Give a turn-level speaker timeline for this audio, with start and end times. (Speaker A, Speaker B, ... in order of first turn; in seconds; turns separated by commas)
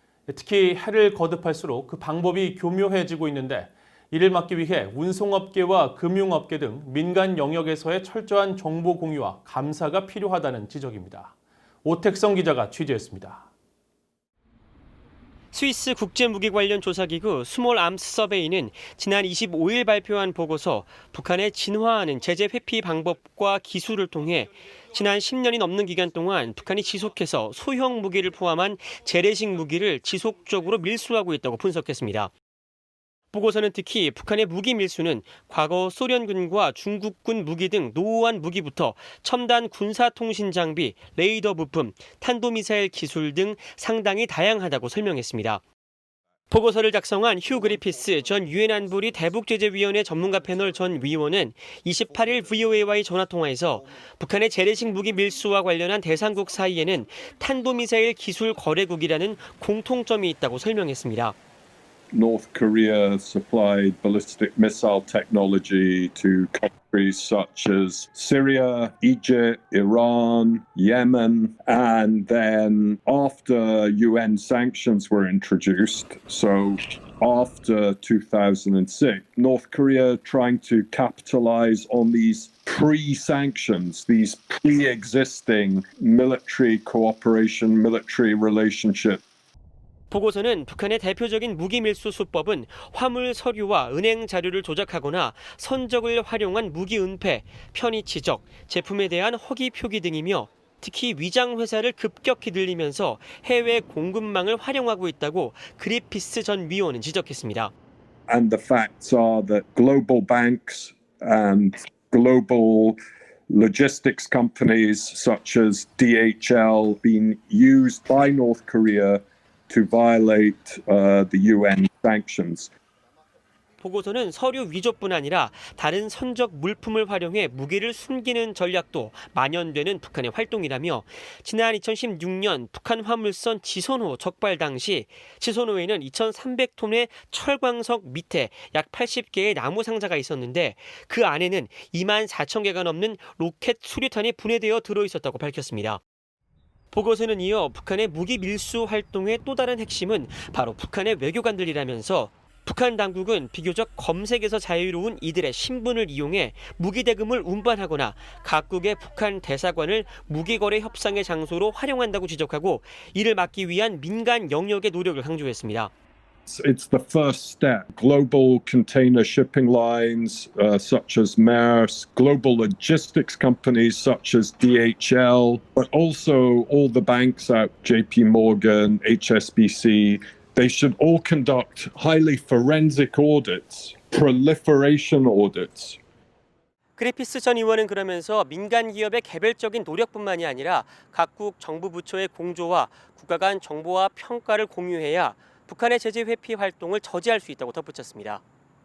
Speaker A: 0.3-13.5, Speaker B: 15.5-32.3, Speaker B: 33.3-45.6, Speaker B: 46.5-61.4, Speaker C: 62.1-89.2, Speaker B: 90.1-107.7, Speaker C: 108.3-113.0, Speaker C: 113.5-122.7, Speaker B: 123.8-146.0, Speaker B: 146.9-165.9, Speaker C: 166.5-186.0, Speaker B: 187.0-198.4